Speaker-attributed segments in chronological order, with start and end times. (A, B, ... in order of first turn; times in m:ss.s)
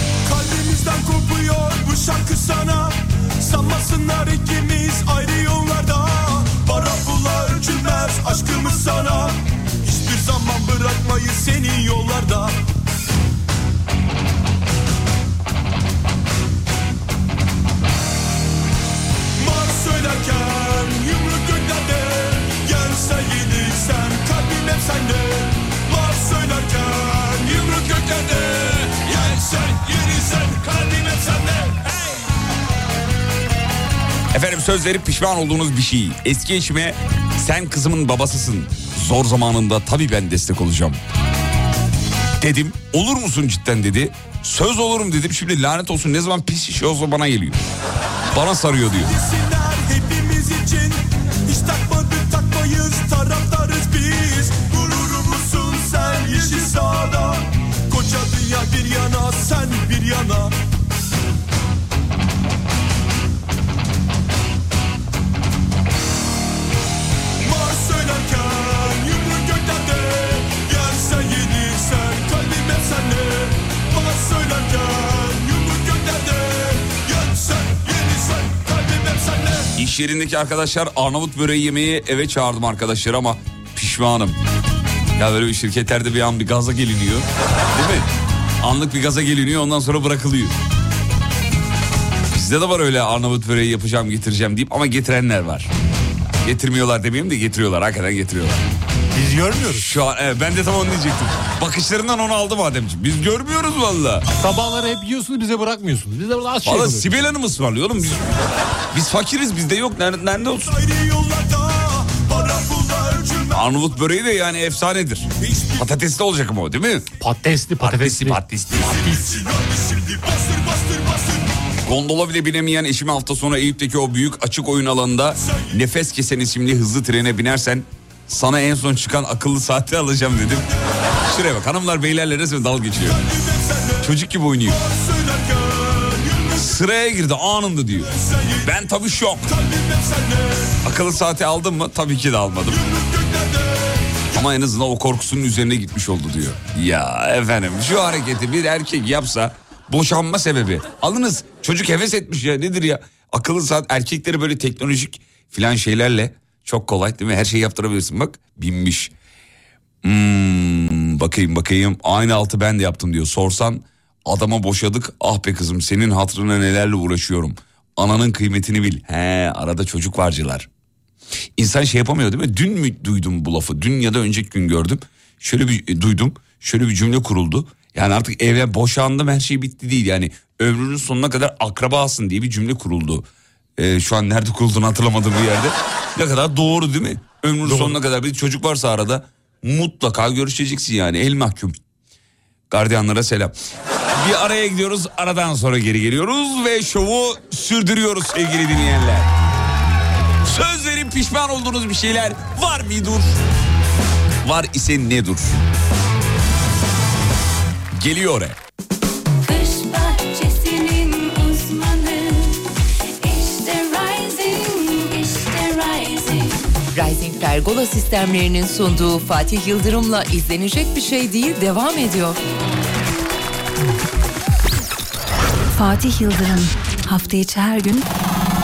0:00.2-0:12.6 A
0:19.4-0:31.9 A
0:34.3-0:41.0 B
0:42.4-0:47.6 B
0:48.3-0:49.2 B
0:49.0-1:00.5 A
1:07.4-1:19.7 A
1:19.8-1:24.4 B
1:25.2-1:28.1 B
1:28.6-1:30.6 B
1:32.3-1:35.7 B
1:36.4-1:38.6 B
1:39.1-1:39.9 C
1:39.7-1:44.3 B
1:44.4-1:47.3 C
1:46.6-1:48.4 B
1:48.9-1:50.8 B
1:50.6-1:53.6 A
1:53.5-1:57.1 B
1:55.4-1:55.8 A
1:57.2-1:58.4 C
1:57.8-1:59.2 B
1:58.8-2:01.5 A
1:59.0-1:59.4 C
2:01.9-2:13.2 B
2:05.4-2:05.7 A
2:13.0-2:14.1 A
2:14.0-2:14.8 B
2:14.6-2:16.7 A
2:16.6-2:19.5 B
2:18.0-2:18.7 A
2:19.5-2:20.8 A
2:20.8-2:22.8 B
2:22.7-2:24.2 A
2:24.3-2:39.1 B
2:40.0-2:50.7 B
2:51.6-3:11.8 B
3:07.6-3:08.0 C
3:12.7-3:13.5 B
3:14.2-3:19.3 B
3:20.4-3:23.4 B
3:24.4-3:25.6 B
3:28.0-3:28.6 B
3:29.4-3:36.6 D
3:36.9-3:42.4 E
3:45.7-3:48.0 F